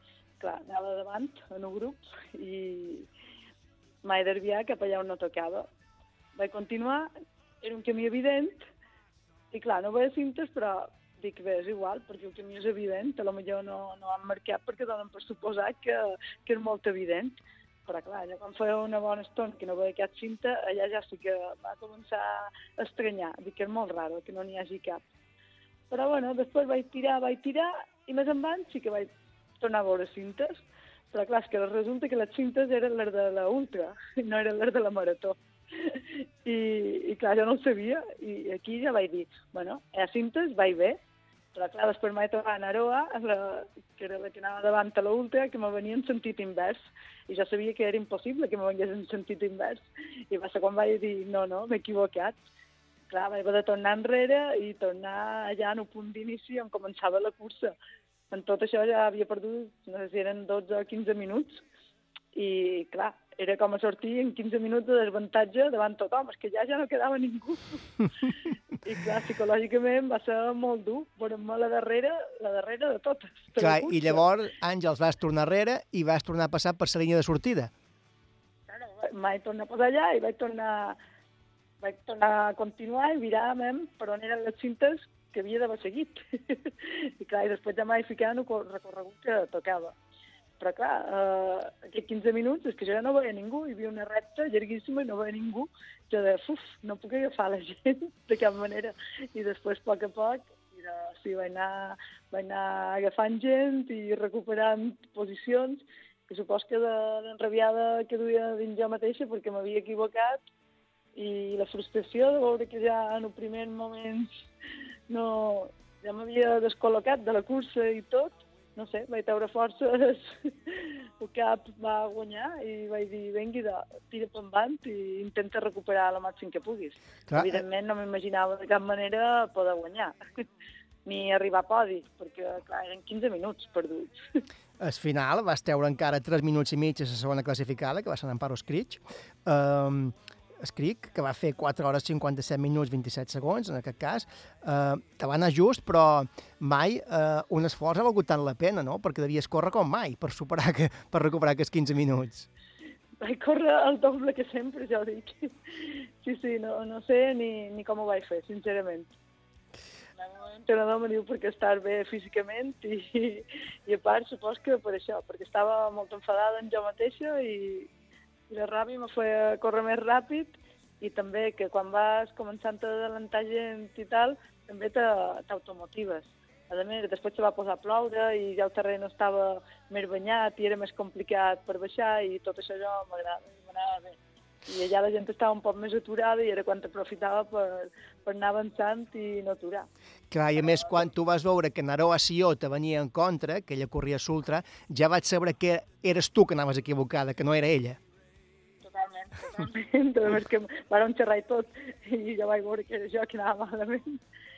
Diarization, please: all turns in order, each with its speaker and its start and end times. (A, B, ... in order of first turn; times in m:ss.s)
0:00.4-0:03.1 A
0:04.0-0:05.7 A
0:06.4-0:07.1 A
0:07.6-0:08.7 A
0:09.5-0:25.0 A
0:25.9-0:41.0 A
0:41.5-0:52.4 A
0:53.1-0:57.8 A
0:58.3-1:01.6 A
1:02.4-1:07.8 A
1:08.8-1:14.2 A
1:13.6-1:17.7 B
1:18.7-1:21.0 A
1:21.8-1:30.0 A
1:30.6-1:50.4 A
1:51.2-1:54.4 A
1:55.1-2:10.2 A
2:07.3-2:07.6 B
2:11.1-2:14.2 A
2:14.8-2:32.5 B
2:33.2-2:39.1 A
2:40.2-2:47.9 A
2:48.5-3:09.9 A
3:10.3-3:18.0 B
3:10.6-3:11.0 A
3:18.8-3:24.2 A